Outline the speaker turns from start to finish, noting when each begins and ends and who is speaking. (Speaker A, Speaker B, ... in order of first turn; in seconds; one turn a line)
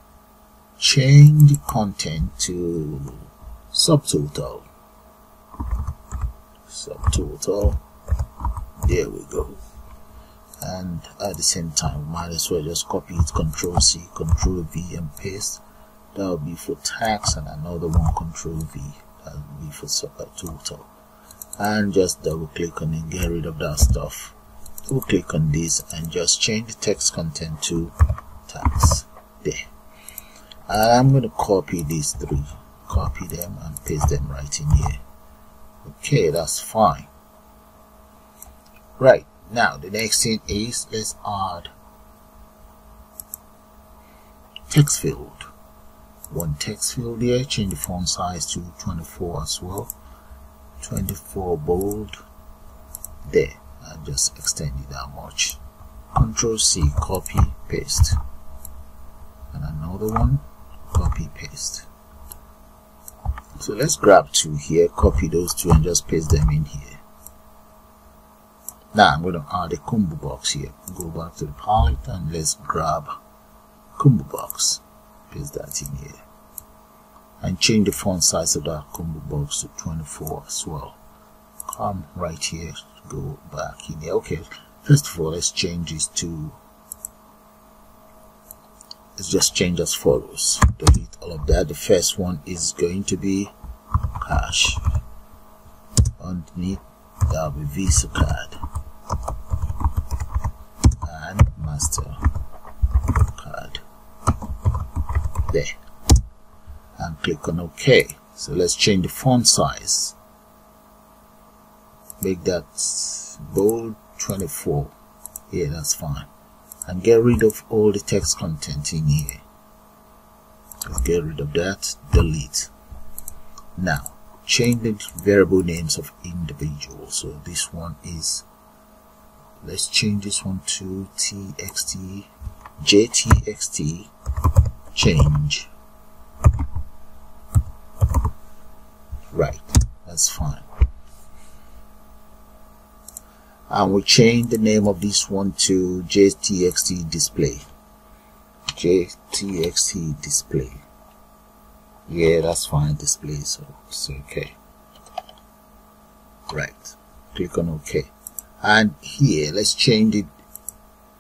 Speaker A: 0.8-4.7
Speaker A: 6.7-7.8
Speaker A: 8.8-9.6
Speaker A: 10.6-15.6
Speaker A: 16.1-20.9
Speaker A: 21.6-24.4
Speaker A: 24.9-27.9
Speaker A: 28.5-29.7
Speaker A: 30.7-35.0
Speaker A: 35.8-37.1
Speaker A: 39.0-41.7
Speaker A: 44.7-45.5
Speaker A: 46.3-49.9
Speaker A: 50.8-52.2
Speaker A: 53.3-55.6
Speaker A: 56.1-58.2
Speaker A: 59.5-61.9
Speaker A: 63.6-67.0
Speaker A: 68.9-73.1
Speaker A: 74.0-76.2
Speaker A: 77.4-81.0
Speaker A: 81.7-86.6
Speaker A: 89.2-93.5
Speaker A: 94.2-94.8
Speaker A: 96.2-98.6
Speaker A: 101.0-102.2
Speaker A: 103.3-103.8
Speaker A: 105.5-105.8
Speaker A: 107.0-110.2
Speaker A: 112.2-114.9
Speaker A: 115.5-116.3
Speaker A: 116.9-119.4
Speaker A: 120.9-122.7
Speaker A: 123.8-128.4
Speaker A: 129.6-132.3
Speaker A: 132.8-134.1
Speaker A: 134.9-135.7
Speaker A: 139.3-140.7
Speaker A: 143.7-147.7
Speaker A: 148.7-150.8
Speaker A: 152.1-154.6
Speaker A: 156.5-160.3